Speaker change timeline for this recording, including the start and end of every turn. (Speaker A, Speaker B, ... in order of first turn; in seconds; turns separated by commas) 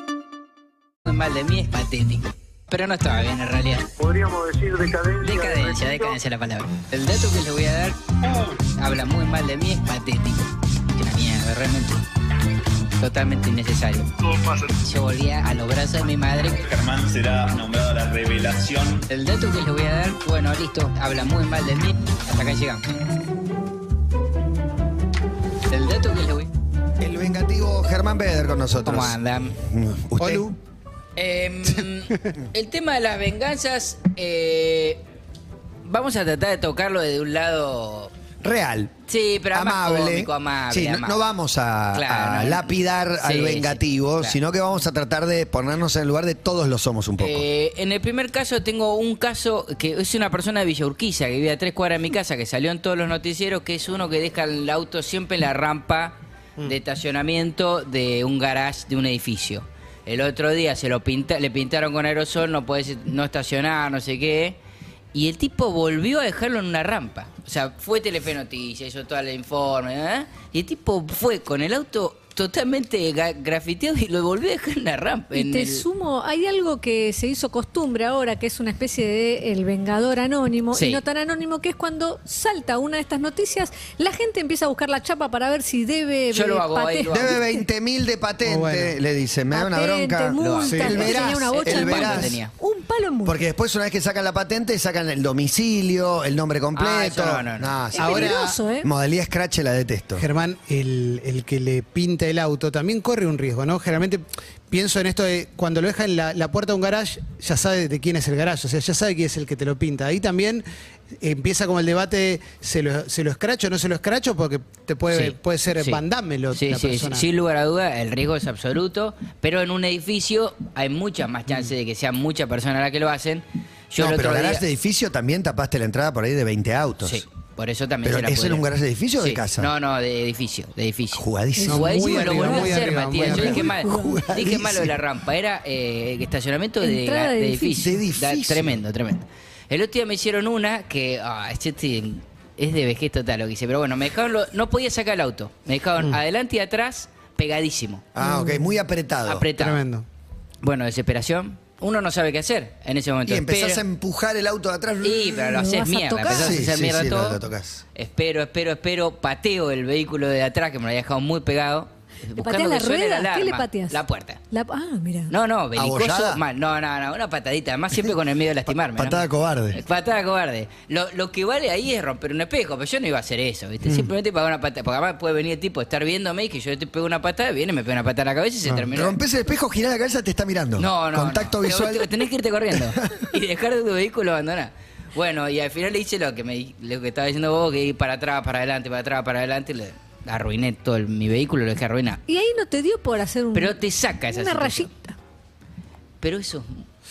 Speaker A: 1.1-3.9, Speaker B: 4.0-6.2, Speaker A: 5.2-8.0, Speaker A: 8.8-12.0, Speaker A: 13.0-14.1, Speaker A: 14.6-16.6, Speaker C: 16.6-19.0, Speaker A: 19.1-22.9, Speaker A: 25.7-26.5, Speaker D: 27.0-30.4, Speaker A: 28.8-29.6, Speaker E: 30.2-30.6, Speaker A: 31.1-35.0, Speaker E: 31.7-32.2, Speaker A: 35.8-38.1, Speaker D: 38.4-38.9, Speaker A: 39.1-41.2, Speaker D: 39.5-47.5, Speaker A: 41.9-44.4, Speaker A: 47.2-64.6, Speaker A: 65.1-75.8, Speaker F: 75.3-87.6, Speaker A: 80.7-81.0, Speaker A: 86.3-87.4, Speaker D: 87.1-92.4, Speaker E: 88.4-89.0, Speaker F: 89.5-93.4, Speaker A: 90.4-92.5, Speaker E: 90.6-91.0, Speaker E: 92.0-92.4, Speaker D: 93.2-100.2, Speaker A: 96.7-97.8, Speaker F: 97.9-98.9, Speaker E: 97.9-98.6, Speaker E: 100.2-110.6, Speaker E: 111.2-117.3, Speaker A: 115.1-124.6, Speaker D: 124.0-127.2, Speaker A: 127.0-148.1, Speaker D: 128.0-129.7, Speaker D: 131.1-132.6, Speaker F: 131.6-134.2, Speaker E: 131.7-133.7, Speaker D: 133.2-134.9, Speaker F: 136.8-138.0, Speaker D: 137.8-138.8, Speaker D: 148.1-149.4, Speaker F: 148.2-148.7, Speaker A: 149.2-149.8, Speaker E: 149.5-150.1, Speaker A: 150.6-153.8, Speaker D: 153.2-155.4, Speaker A: 155.0-157.4, Speaker F: 155.5-156.6, Speaker D: 156.3-157.8, Speaker A: 157.9-164.4, Speaker F: 162.4-165.3, Speaker A: 165.3-179.2, Speaker D: 165.7-166.4, Speaker D: 168.9-169.8, Speaker E: 173.8-174.1, Speaker D: 178.9-182.2, Speaker A: 180.8-192.2, Speaker F: 192.3-195.2, Speaker A: 193.5-194.9, Speaker A: 196.2-196.8